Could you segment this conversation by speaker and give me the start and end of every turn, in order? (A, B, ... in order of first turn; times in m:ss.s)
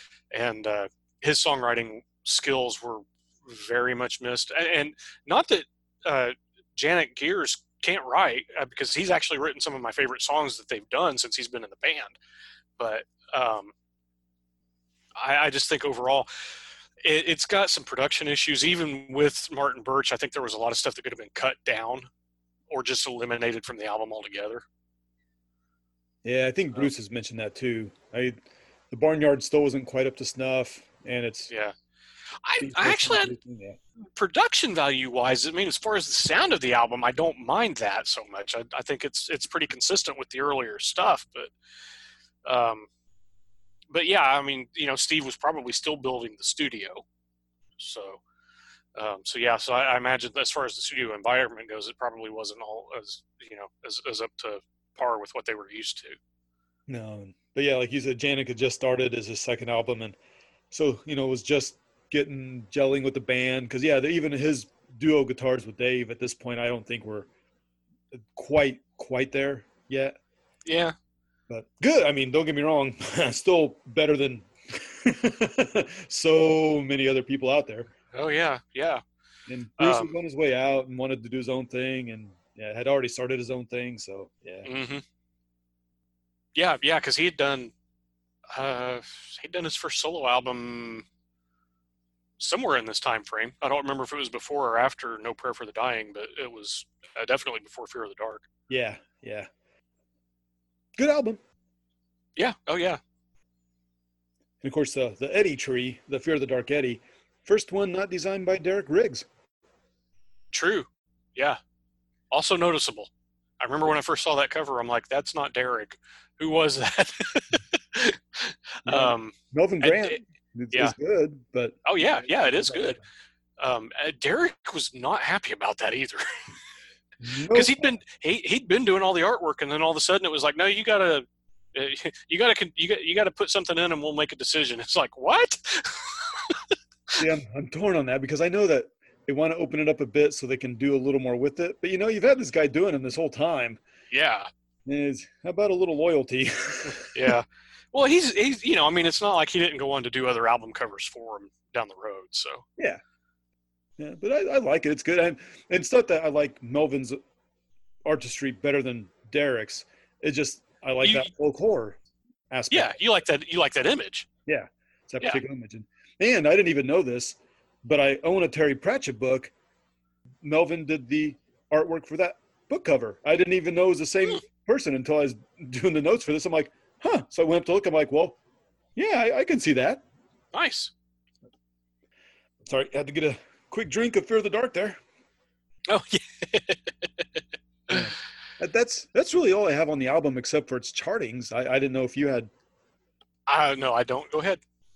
0:00.3-0:12.2 A
0:12.8-0:13.7 A
0:15.2-0:16.3 A
0:17.0-0:22.1 A
0:22.7-0:24.6 A
0:26.2-0:28.4 B
0:28.9-0:31.5 B
0:32.4-0:33.3 A
0:32.6-0:33.8 B
0:34.1-0:41.5 A
0:42.4-0:42.9 A
0:43.9-0:47.0 A
0:47.8-0:48.2 A
0:49.0-0:56.2 A
0:56.9-1:00.2 B
1:00.7-1:07.3 B
1:08.1-1:10.1 B
1:10.6-1:10.9 A
1:11.5-1:17.9 B
1:18.1-1:19.0 A
1:19.5-1:24.7 B
1:19.8-1:20.1 A
1:24.6-1:25.0 A
1:26.5-1:27.7 A
1:28.5-1:31.0 A
1:32.4-1:38.5 A
1:38.7-1:39.5 B
1:41.0-1:41.4 B
1:42.4-1:43.0 A
1:44.6-1:49.2 B
1:50.5-1:51.6 A
1:52.3-2:00.2 A
1:58.8-2:03.0 B
2:01.8-2:03.0 A
2:03.6-2:06.2 A
2:07.2-2:08.0 B
2:07.5-2:16.6 A
2:17.2-2:23.8 B
2:24.1-2:24.5 A
2:24.8-2:27.3 B
2:27.1-2:32.6 A
2:34.0-2:37.2 B
2:38.0-2:42.0 B
2:41.0-2:41.3 A
2:42.5-2:43.0 B
2:42.7-2:44.3 A
2:44.4-2:49.5 B
2:50.4-2:58.4 B
2:59.0-3:00.0 B
3:00.5-3:00.9 A
3:02.6-3:05.0 B
3:05.9-3:08.1 A
3:07.9-3:12.5 B
3:13.5-3:14.6 A